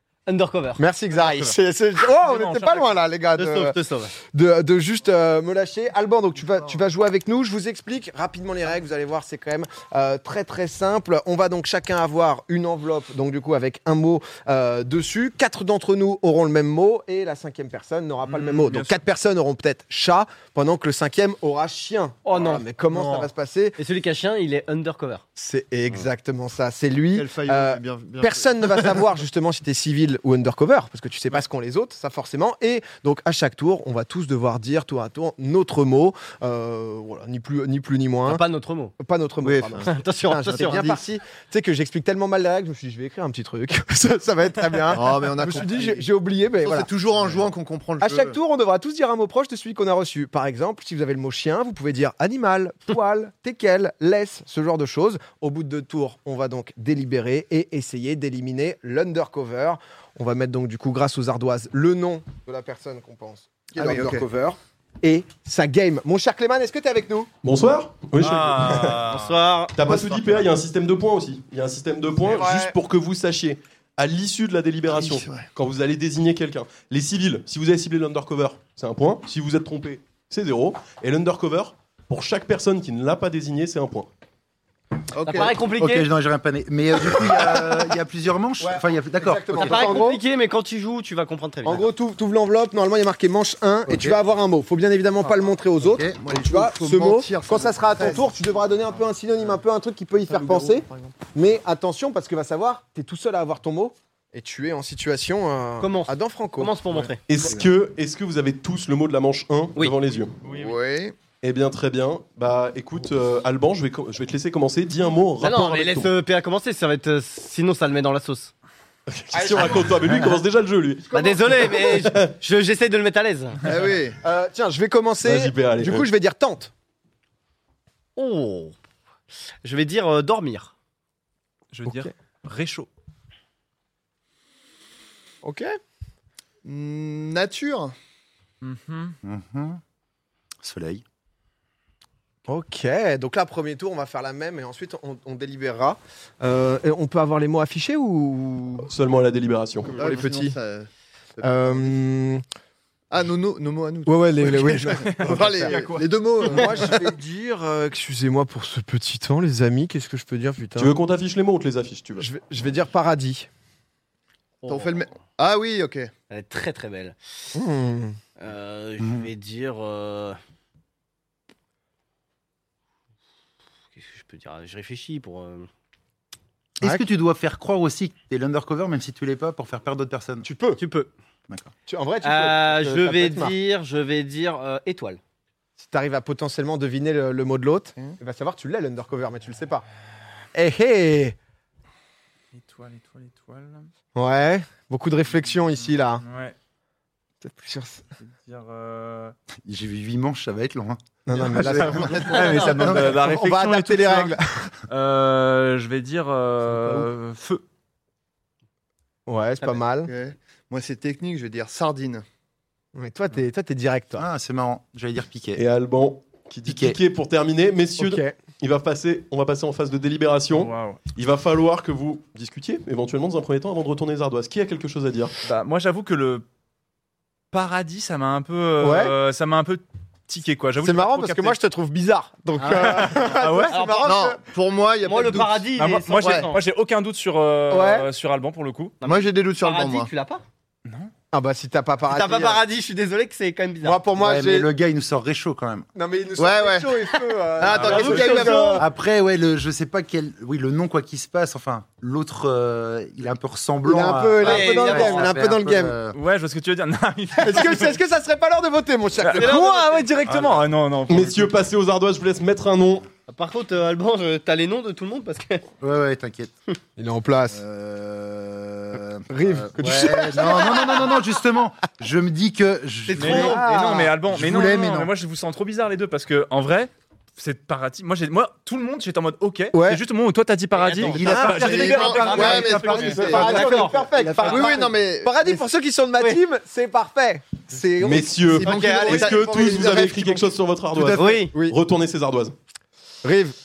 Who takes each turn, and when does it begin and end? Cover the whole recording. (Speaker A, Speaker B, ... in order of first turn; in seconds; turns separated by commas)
Speaker A: 0.3-0.8, Speaker B: 0.8-3.8, Speaker C: 1.1-3.0, Speaker A: 3.4-4.1, Speaker B: 4.3-23.8, Speaker C: 18.3-19.0, Speaker A: 22.3-22.7, Speaker C: 22.9-23.3, Speaker A: 23.8-25.2, Speaker B: 25.4-38.4, Speaker D: 27.1-29.0, Speaker A: 38.2-38.9, Speaker B: 39.0-46.9, Speaker D: 39.4-39.9, Speaker A: 39.8-41.0, Speaker D: 44.9-46.1, Speaker D: 46.6-48.4, Speaker B: 48.0-67.3, Speaker D: 63.7-64.2, Speaker E: 67.4-69.0, Speaker C: 68.2-69.4, Speaker A: 69.0-70.4, Speaker E: 69.8-84.1, Speaker B: 72.3-72.7, Speaker D: 74.9-75.5, Speaker D: 85.1-85.5, Speaker A: 85.3-86.1, Speaker F: 85.7-89.9, Speaker B: 88.6-90.2, Speaker A: 89.5-91.9, Speaker B: 91.7-106.7, Speaker F: 93.9-94.2, Speaker F: 95.8-96.2, Speaker D: 96.2-98.3, Speaker D: 100.3-101.2, Speaker A: 105.8-107.3, Speaker E: 107.3-110.4, Speaker C: 110.4-110.8, Speaker D: 110.5-111.2, Speaker E: 111.4-116.1, Speaker A: 115.4-118.5, Speaker E: 119.1-122.3, Speaker B: 119.3-119.9, Speaker A: 121.1-123.6, Speaker B: 121.2-121.5, Speaker D: 123.6-124.2, Speaker B: 124.2-126.7, Speaker E: 125.2-126.1, Speaker A: 128.2-128.8, Speaker A: 129.6-130.7, Speaker C: 131.7-132.9, Speaker B: 135.4-135.7, Speaker D: 136.6-137.9, Speaker C: 138.6-139.2, Speaker F: 139.2-139.8, Speaker F: 140.6-141.0, Speaker B: 142.5-148.9, Speaker E: 148.9-150.0, Speaker D: 149.9-151.9, Speaker B: 150.0-150.6, Speaker B: 151.4-152.4, Speaker D: 153.1-157.0, Speaker B: 154.1-155.8, Speaker C: 154.9-157.0, Speaker B: 156.4-160.9, Speaker E: 160.8-162.3, Speaker B: 162.2-163.5, Speaker A: 164.6-165.0, Speaker D: 164.7-166.1, Speaker A: 166.3-167.2, Speaker B: 167.6-168.2, Speaker A: 168.4-170.4, Speaker F: 169.0-169.3, Speaker A: 174.0-175.7, Speaker F: 176.8-180.5, Speaker B: 180.4-180.8, Speaker A: 180.8-181.1, Speaker B: 181.9-183.6, Speaker A: 182.2-185.2, Speaker B: 185.8-189.9, Speaker B: 190.5-191.4, Speaker C: 192.5-193.9, Speaker B: 194.2-196.2, Speaker C: 196.2-196.6, Speaker B: 197.4-198.1, Speaker C: 198.2-199.3, Speaker F: 199.7-203.2, Speaker B: 201.3-204.7, Speaker C: 201.8-204.4, Speaker A: 202.1-203.0, Speaker C: 204.9-207.6, Speaker B: 209.3-210.1, Speaker D: 210.0-212.2, Speaker B: 212.9-214.3, Speaker F: 214.2-215.6, Speaker E: 215.6-225.3, Speaker F: 216.7-217.0, Speaker B: 218.0-218.3, Speaker C: 220.5-221.0, Speaker C: 225.4-226.4, Speaker C: 227.5-231.6, Speaker B: 228.8-229.2, Speaker B: 230.8-234.4, Speaker C: 232.6-233.8, Speaker A: 233.7-234.2, Speaker D: 234.0-235.7, Speaker A: 235.0-236.6, Speaker C: 235.8-239.0, Speaker D: 236.2-236.5, Speaker B: 237.7-238.1, Speaker A: 239.0-240.4, Speaker D: 239.0-240.1, Speaker C: 240.9-241.1, Speaker B: 241.3-242.6, Speaker A: 242.1-244.0, Speaker B: 243.8-244.7, Speaker F: 244.2-245.9, Speaker B: 245.9-248.9, Speaker D: 246.4-247.0, Speaker D: 247.6-248.8, Speaker C: 247.7-248.3, Speaker A: 247.7-248.8, Speaker F: 248.8-256.2, Speaker B: 253.9-256.0, Speaker A: 254.4-255.3, Speaker C: 256.1-258.0, Speaker B: 257.4-259.8, Speaker C: 259.2-261.6, Speaker A: 259.4-260.4, Speaker E: 261.1-263.1, Speaker A: 263.3-265.7, Speaker F: 265.8-266.5, Speaker B: 267.0-267.6, Speaker F: 267.5-273.6, Speaker B: 269.3-271.1, Speaker A: 273.1-274.0, Speaker C: 273.2-283.6, Speaker B: 273.3-275.1, Speaker B: 279.7-280.0, Speaker A: 280.8-284.7, Speaker F: 281.0-282.6, Speaker B: 281.2-281.6, Speaker D: 281.6-285.6, Speaker B: 282.3-290.3, Speaker E: 288.0-292.5, Speaker D: 288.5-290.4, Speaker A: 288.6-289.3, Speaker F: 290.9-291.4, Speaker A: 291.1-291.5, Speaker B: 293.2-293.6